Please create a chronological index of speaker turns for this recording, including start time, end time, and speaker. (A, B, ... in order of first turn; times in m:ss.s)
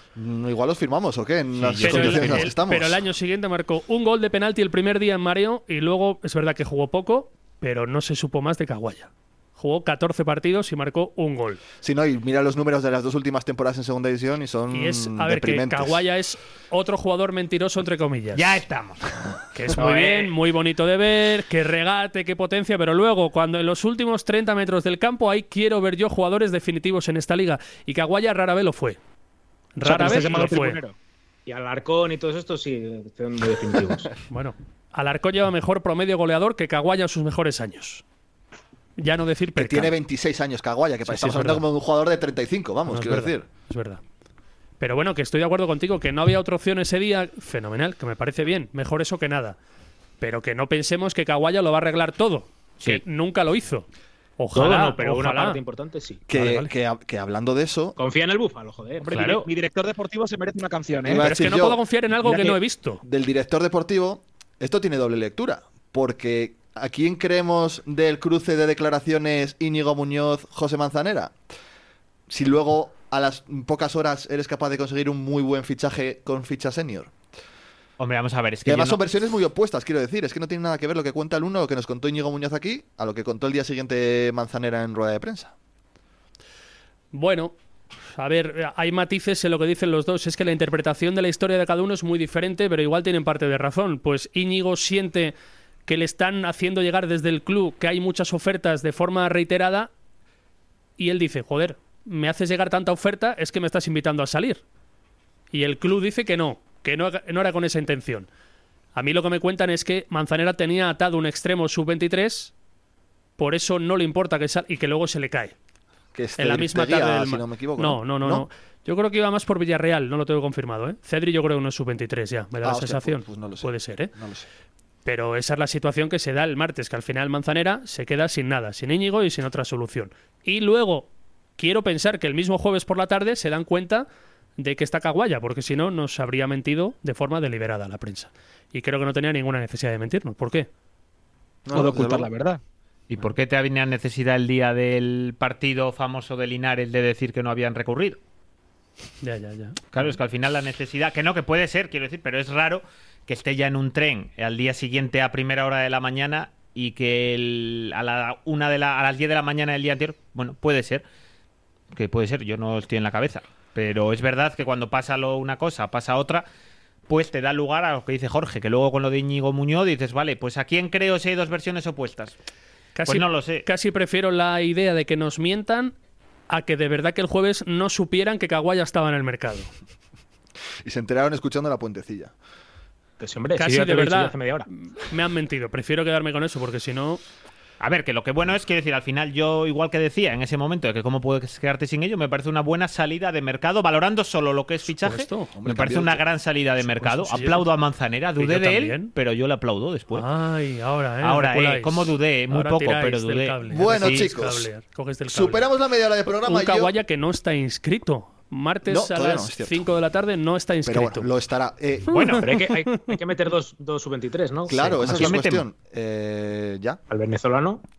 0:00.1-0:03.0 A
0:01.5-0:02.5 B
0:01.8-0:11.6 C
0:11.8-0:16.0 A
0:14.7-0:18.6 C
0:18.3-0:19.1 B
0:19.5-0:29.0 C
0:19.7-0:20.3 B
0:29.8-0:30.8 C
0:29.8-0:30.9 D
0:31.4-0:34.1 E
0:34.3-0:38.0 C
0:39.0-0:39.9 C
0:39.5-0:43.4 A
0:41.0-0:41.6 C
0:42.9-0:44.0 C
0:44.8-0:49.6 C
0:50.2-0:55.6 C
0:54.5-0:56.2 E
0:56.3-0:58.0 A
0:56.3-0:56.7 C
0:58.0-0:59.2 E
0:59.1-1:01.3 D
0:59.1-0:59.5 B
1:01.0-1:11.3 A
1:01.2-1:03.0 C
1:12.3-1:17.1 A
1:18.0-1:19.0 B
1:18.6-1:25.5 A
1:27.1-1:27.5 C
1:28.1-1:35.3 C
1:35.9-1:39.9 C
1:41.0-1:44.6 C
1:45.5-1:48.3 C
1:48.9-1:52.5 C
1:53.4-1:55.5 C
1:56.1-1:58.5 A
1:56.4-2:04.1 C
2:02.6-2:04.4 A
2:05.0-2:14.1 C
2:14.6-2:20.7 C
2:21.6-2:22.3 A
2:21.7-2:22.6 D
2:23.1-2:28.2 B
2:29.2-2:29.8 C
2:29.9-2:41.0 B
2:41.9-2:46.4 B
2:47.1-2:52.3 B
2:53.0-2:55.9 C
2:53.0-2:53.6 B
2:56.5-2:59.7 C
3:00.8-3:02.3 A
3:03.2-3:04.7 E
3:03.6-3:07.2 C
3:07.8-3:20.3 B
3:15.0-3:15.5 C
3:15.5-3:16.2 A
3:17.0-3:17.7 C
3:18.4-3:19.1 C
3:20.1-3:25.7 C
3:21.2-3:24.3 B
3:23.7-3:24.7 A
3:25.3-3:26.9 A
3:26.4-3:31.3 C
3:28.8-3:29.9 A
3:30.8-3:32.3 A
3:32.1-3:32.5 B
3:32.4-3:35.4 E
3:34.7-3:37.0 A
3:35.0-3:35.6 B
3:37.1-3:37.8 E